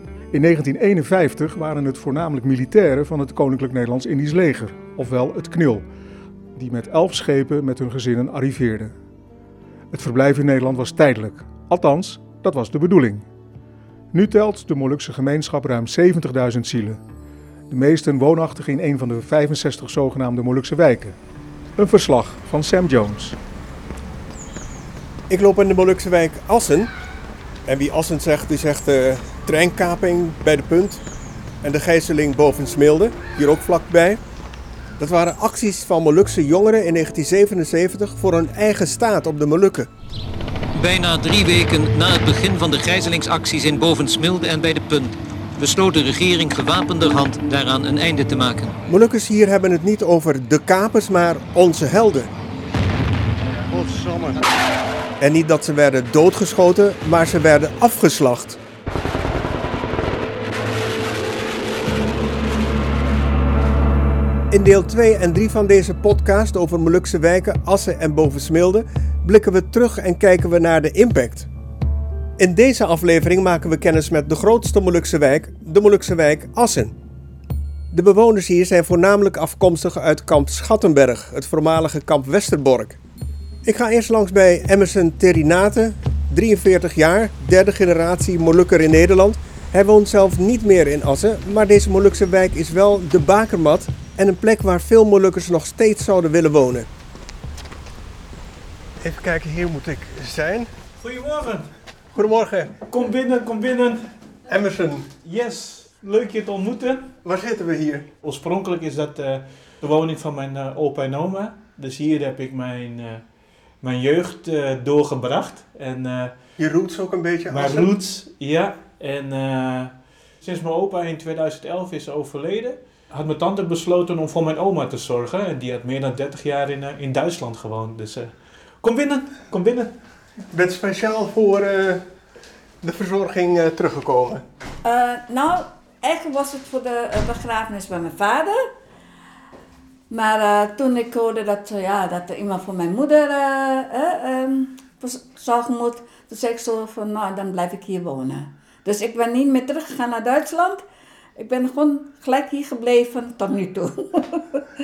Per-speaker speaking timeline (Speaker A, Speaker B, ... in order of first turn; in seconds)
Speaker A: 0.3-5.9, 6.5-8.9, 9.9-13.2, 14.1-17.0, 17.7-21.1, 21.8-23.4
Speaker B: 25.3-26.9, 27.7-31.0, 31.6-34.2, 35.0-39.9, 48.9-52.3, 55.2-58.6, 64.5-71.5, 72.4-76.9, 77.9-83.0, 83.6-96.9, 99.0-100.7, 102.1-102.7, 104.5-105.1, 107.2-108.1, 116.6-117.9, 130.5-132.0, 132.8-134.4
Speaker C: 40.7-48.8
Speaker D: 101.0-101.7, 102.9-104.0, 105.2-107.1, 108.2-113.2, 113.8-116.3, 117.5-129.9
Speaker E: 134.8-138.7, 140.1-150.8, 151.4-154.6